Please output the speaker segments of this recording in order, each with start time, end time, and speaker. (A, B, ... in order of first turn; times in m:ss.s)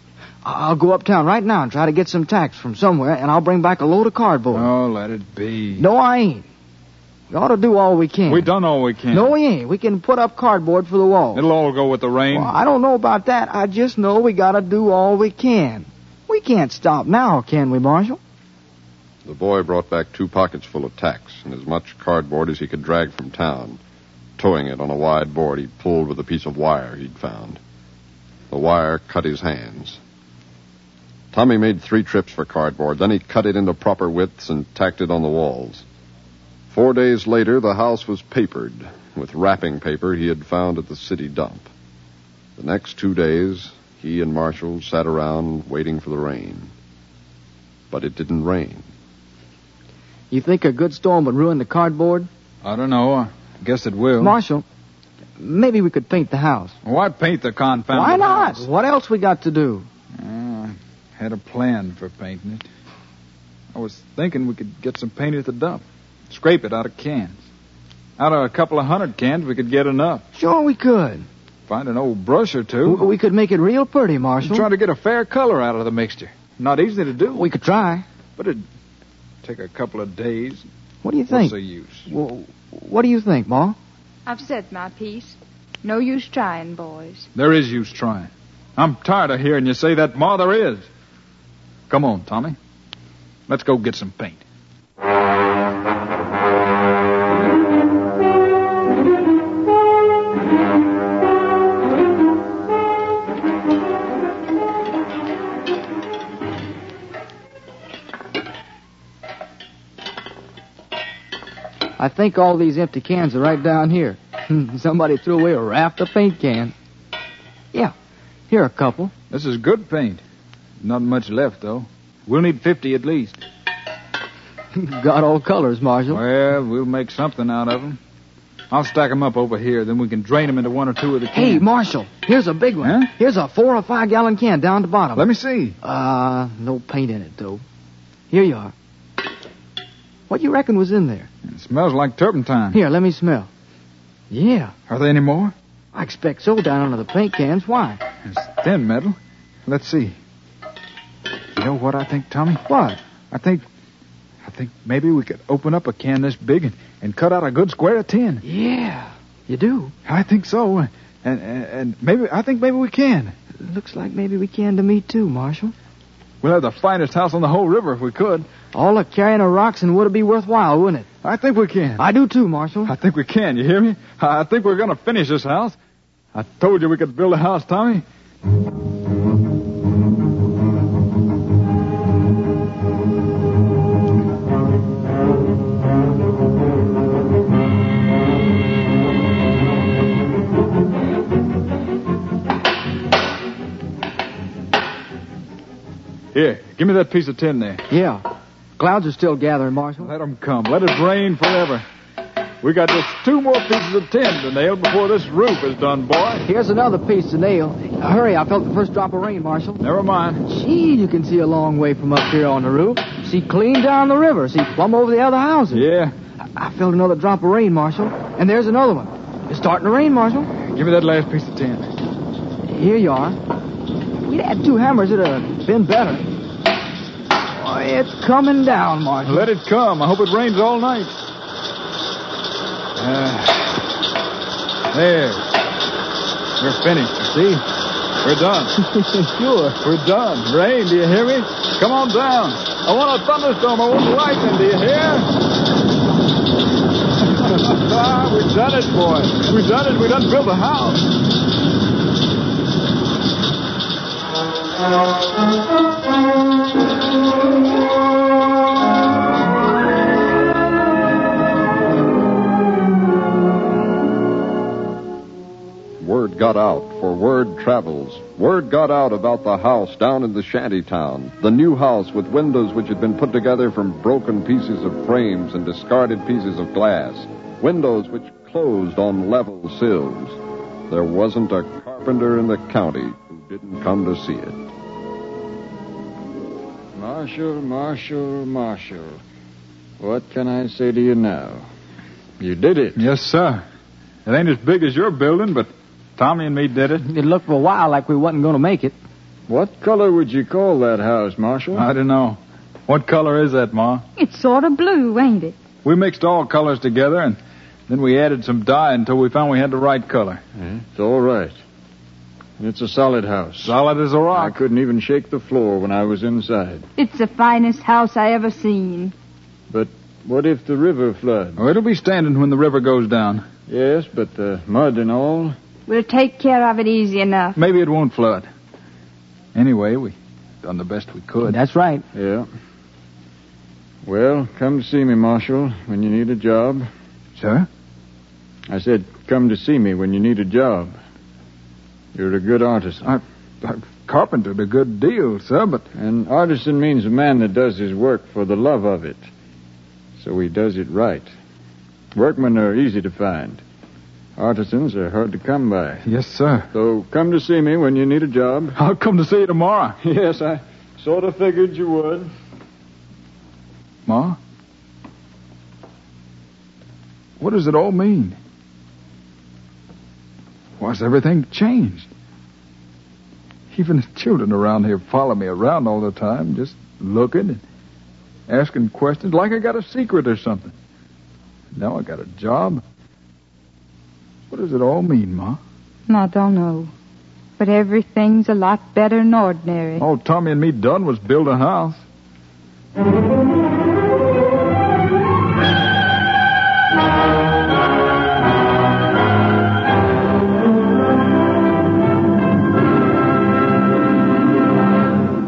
0:00.4-0:04.7 A
0:04.5-0:05.8 B
0:05.8-0:06.4 A
0:07.3-0:08.5 A
0:08.3-0:09.3 B
0:09.1-0:11.5 A
0:11.3-0:12.5 B
0:12.3-0:18.2 A
0:19.2-0:23.8 C
0:24.4-0:27.6 C
0:28.5-0:30.0 C
0:31.3-0:35.8 C
0:36.7-0:41.7 C
0:42.6-0:46.7 C
0:47.9-0:48.9 C
0:50.3-0:52.3 A
0:52.6-0:54.4 B
0:54.2-0:54.6 A
0:55.4-0:56.7 A
0:56.8-0:58.6 B
0:57.9-0:59.9 A
1:00.2-1:02.6 B
1:03.7-1:07.4 B
1:08.2-1:10.2 B
1:10.3-1:11.2 A
1:11.7-1:13.0 B
1:12.8-1:14.7 A
1:14.4-1:17.5 B
1:17.3-1:18.0 A
1:18.4-1:18.6 B
1:19.4-1:20.6 B
1:21.0-1:21.6 A
1:21.3-1:22.1 B
1:22.1-1:23.8 A
1:24.2-1:27.3 D
1:27.3-1:30.9 B
1:31.9-1:32.6 B
1:33.5-1:34.4 B
1:52.0-1:56.7 A
1:58.5-1:59.1 A
1:59.3-2:00.2 B
2:00.8-2:03.4 B
2:04.8-2:06.2 A
2:06.1-2:08.0 B
2:08.7-2:11.6 B
2:11.3-2:15.3 A
2:12.8-2:13.1 B
2:15.1-2:15.8 B
2:15.8-2:17.6 A
2:18.3-2:18.7 A
2:20.3-2:21.3 A
2:21.4-2:22.8 B
2:22.7-2:23.5 A
2:24.3-2:24.7 A
2:24.9-2:25.5 B
2:25.9-2:28.0 A
2:28.2-2:30.2 B
2:31.5-2:32.6 B
2:32.7-2:33.0 A
2:33.3-2:33.6 B
2:34.4-2:38.4 B
2:38.4-2:39.9 A
2:40.0-2:43.3 B
2:43.6-2:45.7 A
2:46.4-2:48.5 B
2:48.7-2:51.1 A
2:51.2-2:52.0 B
2:52.0-2:52.9 A
2:52.8-2:55.8 B
2:56.3-2:58.0 B
3:16.3-3:17.8 B
3:17.9-3:18.2 A
3:18.8-3:20.1 A
3:20.0-3:21.8 B
3:22.6-3:26.4 B
3:26.4-3:29.8 A
3:29.8-3:30.4 B
3:30.5-3:35.9 A
3:35.7-3:36.1 B
3:36.6-3:40.5 A
3:40.6-3:41.8 B
3:42.6-3:43.4 A
3:44.2-3:46.3 A
3:47.5-3:49.5 A
3:49.2-3:51.2 B
3:53.0-3:53.9 B
3:54.9-3:55.4 B
3:56.6-3:57.6 B
3:58.2-3:58.8 B
3:59.1-3:59.8 A
3:59.8-4:05.3 B
4:07.2-4:11.1 B
4:26.0-4:44.6 C
4:46.9-4:49.2 E
4:50.0-4:51.6 E
4:52.4-4:53.0 E
4:53.0-4:53.6 B
4:54.2-4:57.1 B
4:57.0-4:59.0 A
4:59.5-5:01.9 E
5:01.7-5:04.0 B
5:04.2-5:05.6 D
5:05.8-5:10.4 B
5:10.6-5:11.5 E
5:12.6-5:13.8 E
5:13.6-5:14.6 B
5:14.3-5:16.8 E
5:17.0-5:19.1 D
5:19.7-5:21.6 E
5:21.6-5:23.4 B
5:23.7-5:25.5 E
5:25.9-5:27.6 D
5:27.6-5:28.5 B
5:29.5-5:31.6 B
5:31.4-5:32.0 A
5:32.1-5:32.5 E
5:34.0-5:36.9 E
5:37.4-5:37.7 B
5:38.7-5:41.0 E
5:42.1-5:43.1 E
5:43.0-5:45.8 B
5:45.9-5:49.2 E
5:50.2-5:51.3 E
5:52.1-5:53.6 E
5:54.4-5:56.0 E
5:56.0-5:56.7 B
5:56.7-5:58.8 E
5:58.8-6:00.0 B
6:00.0-6:02.3 E
6:04.1-6:04.4 B
6:07.4-6:08.4 B
6:10.8-6:12.1 B
6:13.7-6:17.6 B
6:18.5-6:20.7 B
6:21.7-6:22.8 B
6:24.5-6:25.6 B
6:26.1-6:26.9 D
6:27.6-6:30.0 D
6:30.0-6:32.0 B